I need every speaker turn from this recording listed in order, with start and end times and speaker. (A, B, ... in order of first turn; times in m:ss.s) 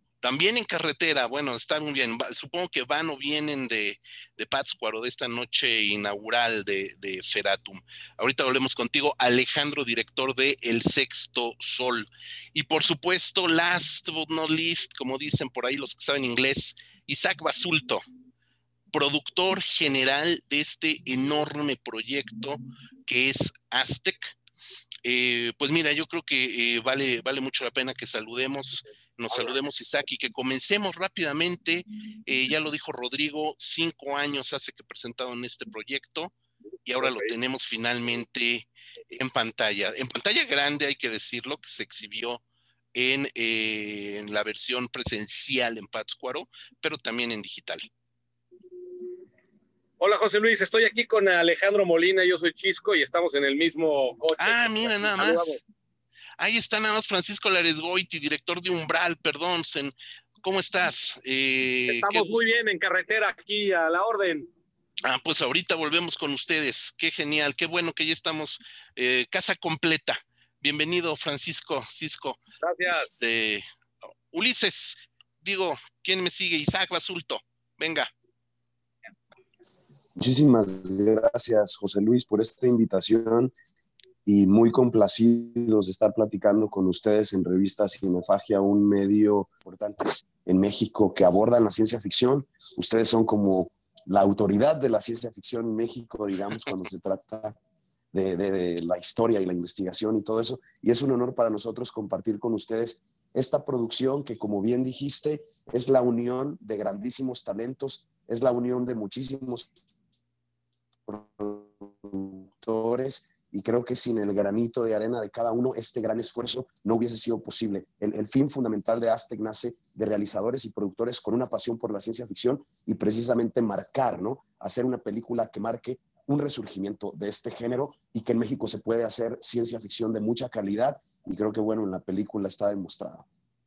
0:00.2-0:18.0 A
0:18.9-0:24.3 A
0:25.0-0:36.3 A
0:36.8-0:42.4 A
0:42.9-0:47.9 A
0:50.0-0:55.6 B
0:54.4-0:55.6 A
0:56.4-1:02.4 A
1:01.9-1:04.5 B
1:05.0-1:13.6 A
1:12.6-1:13.1 B
1:14.3-1:18.1 A
1:20.2-1:23.5 C
1:24.2-1:37.6 C
1:38.1-1:49.7 C
1:51.1-2:13.2 C